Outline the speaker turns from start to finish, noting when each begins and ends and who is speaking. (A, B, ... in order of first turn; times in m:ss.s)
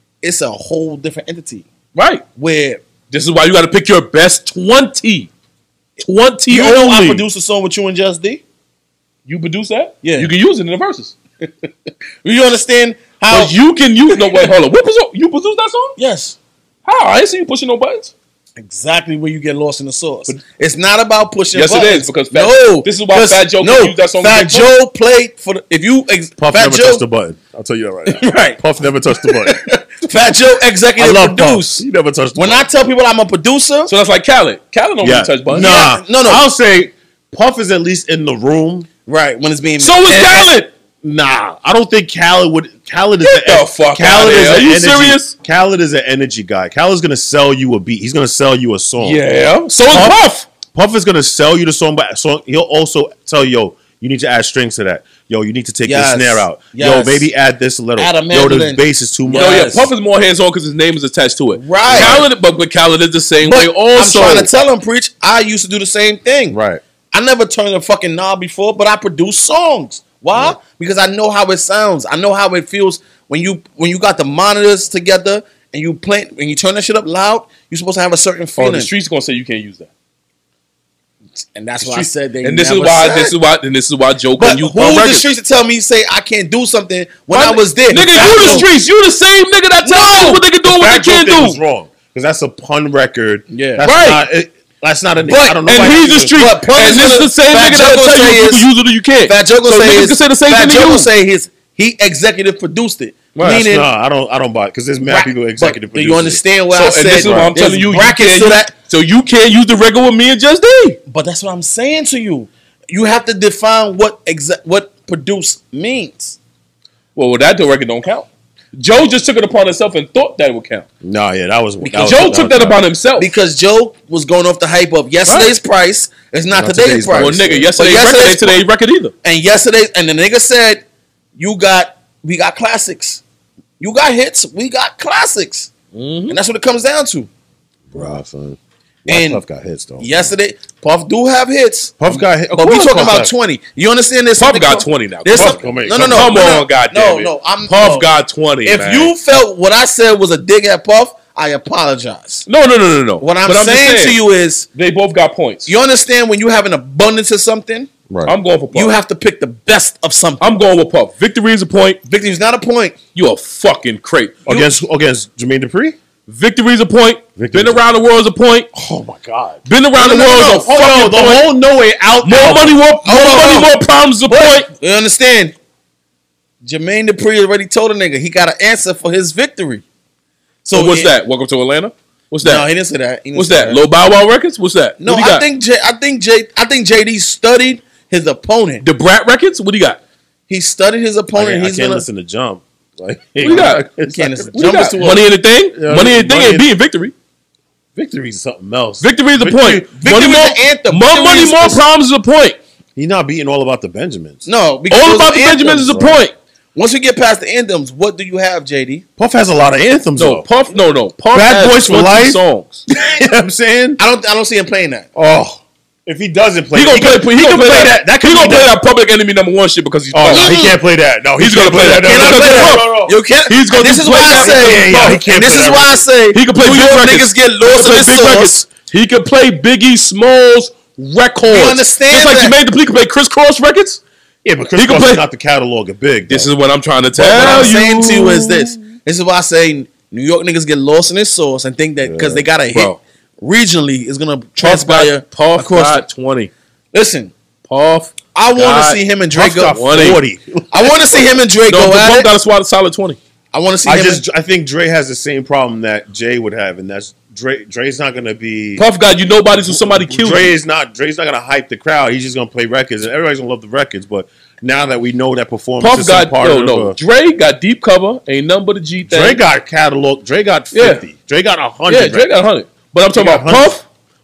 0:00.2-0:01.6 A
0:01.9-0:02.2 B
0:02.4-0:02.8 A
0:03.1-0:05.3 B
0:06.0-0:07.2 B
0:06.5-0:08.4 A
0:09.3-0:11.2 B
0:10.0-0:10.3 A
0:12.2-0:13.5 A
0:13.3-0:16.0 B
0:14.1-0:14.5 A
0:16.0-0:16.4 A
0:16.8-0:18.1 B
0:18.6-0:27.0 A
0:21.5-0:24.7 B
0:26.4-0:29.6 C
0:28.1-0:28.6 A
0:29.1-0:31.8 A
0:31.0-0:32.7 C
0:32.4-0:33.9 A
0:33.9-0:35.9 B
0:35.0-0:38.9 C
0:35.5-0:36.4 A
0:39.1-0:40.5 A
0:39.8-0:40.7 B
0:41.0-0:49.2 C
0:43.2-0:45.3 B
0:49.0-0:50.5 B
0:50.7-0:59.8 C
0:55.8-0:57.3 A
0:58.0-0:59.9 A
0:59.3-1:04.5 B
1:01.5-1:02.2 A
1:01.8-1:02.2 C
1:03.4-1:06.6 A
1:06.5-1:06.8 C
1:07.1-1:18.9 A
1:18.6-1:19.9 B
1:21.5-1:23.3 A
1:21.8-1:25.2 B
1:24.4-1:28.7 A
1:27.3-1:31.6 B
1:28.1-1:28.7 C
1:29.8-1:30.4 A
1:30.6-1:36.4 C
1:33.5-1:33.8 A
1:33.8-1:34.2 B
1:35.2-1:38.7 A
1:35.7-1:41.1 B
1:39.3-1:43.9 A
1:43.3-1:43.6 B
1:43.4-1:46.4 C
1:45.0-1:48.7 A
1:46.7-1:51.0 B
1:47.2-1:47.5 C
1:51.1-1:56.4 A
1:57.2-2:00.8 B
2:01.0-2:02.8 C
2:01.8-2:03.3 B
2:03.2-2:08.6 A
2:05.3-2:05.5 B
2:06.5-2:07.7 C
2:07.1-2:09.1 B
2:09.2-2:10.8 A
2:11.4-2:13.2 A
2:13.8-2:15.7 A
2:15.9-2:16.4 B
2:16.3-2:17.3 A
2:17.9-2:20.3 C
2:19.1-2:19.4 A
2:20.0-2:32.5 A
2:22.0-2:23.3 C
2:24.4-2:29.1 B
2:25.3-2:26.5 C
2:32.5-2:34.2 B
2:33.2-2:34.6 A
2:34.7-2:35.7 B
2:35.6-2:37.9 A
2:38.1-2:38.4 C
2:38.2-2:39.0 B
2:38.7-2:40.6 A
2:40.4-2:42.0 B
2:42.0-2:42.9 A
2:43.1-2:44.5 B
2:44.4-2:46.0 C
2:46.3-2:48.7 B
2:47.4-2:47.8 C
2:48.7-2:52.8 C
2:49.7-2:51.5 B
2:50.0-2:50.6 A
2:52.2-2:54.7 B
2:53.0-2:53.7 A
2:54.3-2:55.5 A
2:56.6-2:59.8 A
3:00.6-3:01.1 A
3:00.7-3:02.7 B
3:02.4-3:03.8 A
3:03.3-3:05.4 B
3:05.0-3:08.8 A
3:08.8-3:10.0 B
3:10.5-3:12.0 A
3:11.3-3:14.5 C
3:13.4-3:13.9 B
3:13.4-3:15.2 A
3:14.5-3:17.1 B
3:15.7-3:16.7 C
3:18.0-3:19.8 C
3:19.0-3:22.6 B
3:19.8-3:21.8 A
3:23.0-3:24.4 C
3:24.4-3:26.0 A
3:24.9-3:26.3 B
3:25.9-3:26.2 C
3:26.7-3:29.0 A
3:29.2-3:30.4 C
3:30.2-3:32.8 B
3:31.3-3:32.4 C
3:33.0-3:34.0 C
3:34.0-3:35.1 A
3:35.1-3:38.7 C
3:36.7-3:40.7 B
3:40.1-3:43.2 C
3:40.3-3:40.8 A
3:41.4-3:42.9 B
3:42.0-3:48.6 A
3:43.5-3:45.2 B
3:44.2-3:46.0 C
3:46.3-3:54.0 B
3:51.5-3:52.6 A
3:54.4-3:56.5 C
3:54.8-3:55.2 B
3:56.3-3:58.6 B
3:57.1-4:06.0 A
3:57.3-3:58.3 C
4:02.0-4:02.4 C
4:02.7-4:03.0 B
4:04.6-4:06.5 B
4:06.9-4:07.3 A
4:07.7-4:08.1 B
4:08.3-4:10.1 A
4:08.6-4:11.3 C
4:09.7-4:10.2 B
4:10.7-4:12.3 A
4:11.7-4:13.2 B
4:13.5-4:14.2 A
4:13.8-4:18.8 C
4:18.8-4:20.5 B
4:19.6-4:27.0 C
4:25.8-4:29.4 B
4:29.0-4:32.3 C
4:30.7-4:31.0 B
4:31.9-4:33.8 B
4:33.1-4:33.8 C